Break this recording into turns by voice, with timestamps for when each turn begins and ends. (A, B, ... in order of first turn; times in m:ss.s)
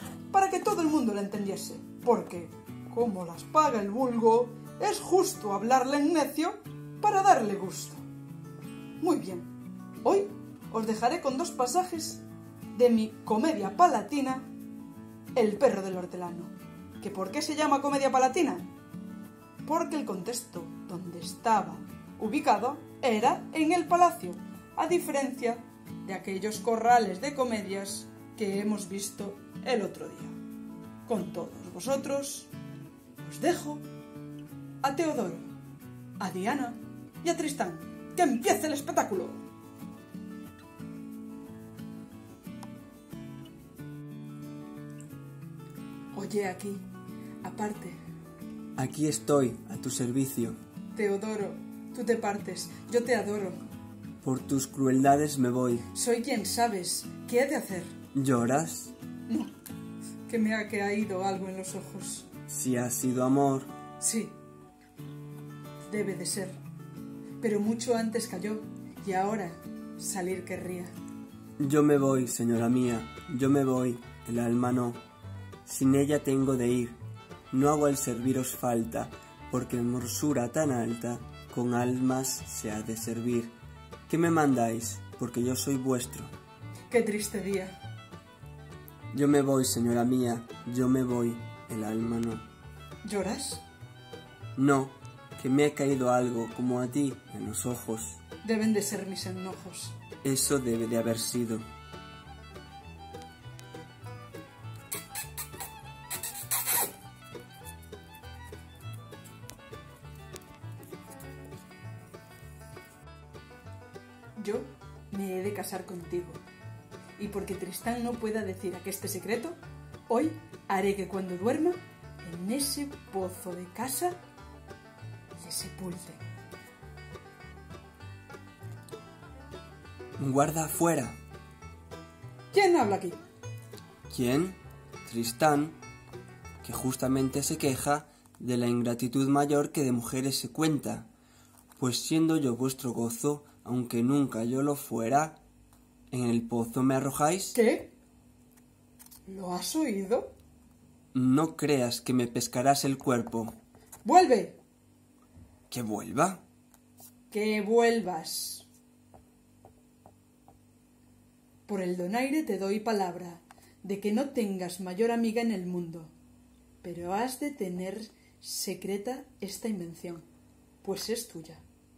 0:00.3-0:08.0 A
0:09.0-0:09.5 A
0:10.0-0:14.5 A
0:15.3-0:18.7 A
0:19.6-0:30.4 A
0:31.0-0:32.5 A
0:33.2-0:33.8 A
0:34.8-0:35.5 A
0:36.2-0:39.4 A
0:46.1-0:46.8 A
0:47.4-0:48.0 A
0:48.8-0:50.6 B
0:50.9-0:53.6 A
0:54.2-0:55.9 B
0:55.9-0:57.9 A
0:58.1-0:58.9 B
1:00.3-1:02.3 A
1:02.5-1:03.7 B
1:04.0-1:04.3 A
1:05.8-1:06.6 A
1:07.4-1:10.9 A
1:11.6-1:15.0 B
1:15.6-1:17.0 B
1:17.5-1:23.5 B
1:24.1-1:26.3 B
1:26.9-1:27.7 A
1:29.1-1:32.4 B
1:33.0-1:33.6 A
1:34.6-1:38.2 B
1:38.4-1:40.0 A
1:40.2-1:41.6 B
1:54.4-1:56.4 A
1:57.2-1:59.6 A
2:00.1-2:04.2 A
2:05.4-2:06.2 A
2:10.2-2:11.2 B
2:12.5-2:13.2 A
2:14.1-2:15.8 B
2:16.6-2:21.1 B
2:21.8-2:25.4 B
2:26.1-2:27.6 B
2:27.5-2:27.9 A
2:29.3-2:30.3 A
2:31.1-2:33.6 B
2:34.0-2:34.6 A
2:35.7-2:36.4 B
2:37.3-2:38.7 A
2:41.6-2:46.1 A
2:46.8-2:50.2 A
2:50.8-2:51.6 A